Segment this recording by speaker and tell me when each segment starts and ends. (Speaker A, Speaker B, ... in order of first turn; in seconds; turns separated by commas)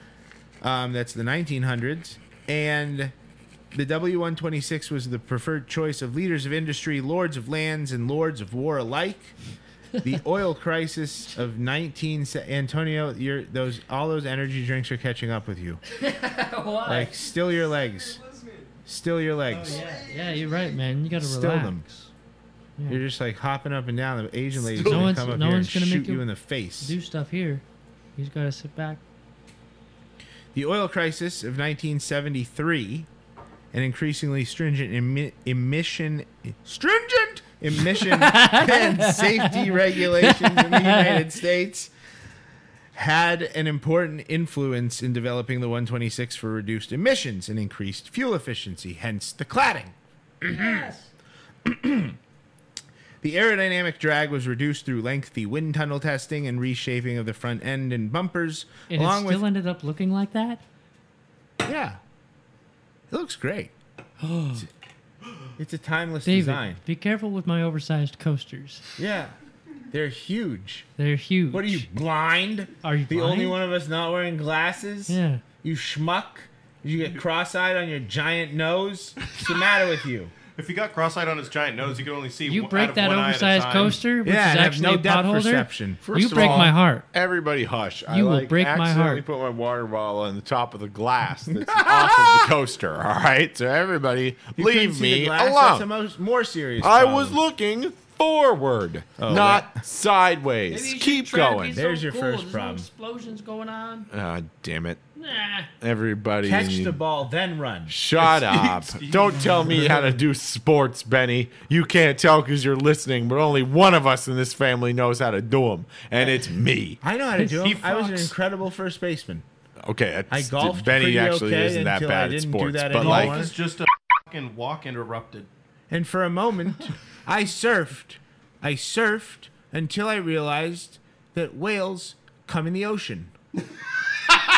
Speaker A: 0.6-3.1, Speaker A: 3.7-9.3, Speaker A: 10.0-15.8, Speaker B: 15.9-17.1, Speaker A: 16.8-18.2, Speaker C: 17.8-18.7, Speaker A: 18.8-19.8, Speaker C: 19.5-20.5, Speaker B: 19.5-22.1, Speaker A: 21.2-21.8, Speaker B: 22.8-23.0, Speaker A: 22.9-26.9, Speaker C: 24.7-25.1, Speaker B: 24.8-26.2, Speaker B: 26.8-27.6, Speaker B: 28.2-29.0, Speaker A: 30.5-33.1, Speaker A: 33.7-41.9, Speaker B: 38.0-41.2, Speaker A: 42.9-50.9, Speaker B: 50.5-51.0, Speaker A: 51.6-52.2, Speaker A: 53.2-59.4, Speaker B: 58.9-60.6, Speaker A: 61.6-62.0, Speaker A: 63.1-63.7, Speaker B: 64.2-64.6, Speaker A: 65.5-66.8, Speaker B: 66.2-68.8, Speaker A: 69.0-69.3, Speaker A: 69.9-70.9, Speaker B: 71.0-71.9, Speaker A: 71.5-80.3, Speaker B: 72.8-73.6, Speaker B: 75.1-75.4, Speaker C: 80.5-84.0, Speaker B: 82.4-87.0, Speaker A: 84.2-86.7, Speaker D: 86.0-95.8, Speaker B: 88.1-89.2, Speaker A: 91.6-92.4, Speaker A: 94.5-97.4, Speaker D: 96.8-101.8, Speaker A: 99.2-99.8, Speaker B: 100.7-104.1, Speaker A: 101.7-102.9, Speaker D: 104.1-105.0, Speaker B: 105.2-105.7, Speaker D: 105.8-107.0, Speaker A: 106.4-107.9, Speaker D: 107.9-117.0, Speaker C: 108.2-110.1, Speaker A: 117.0-119.4, Speaker B: 117.3-118.3, Speaker D: 119.8-123.4, Speaker A: 120.3-123.5, Speaker C: 123.0-125.5, Speaker A: 125.9-133.3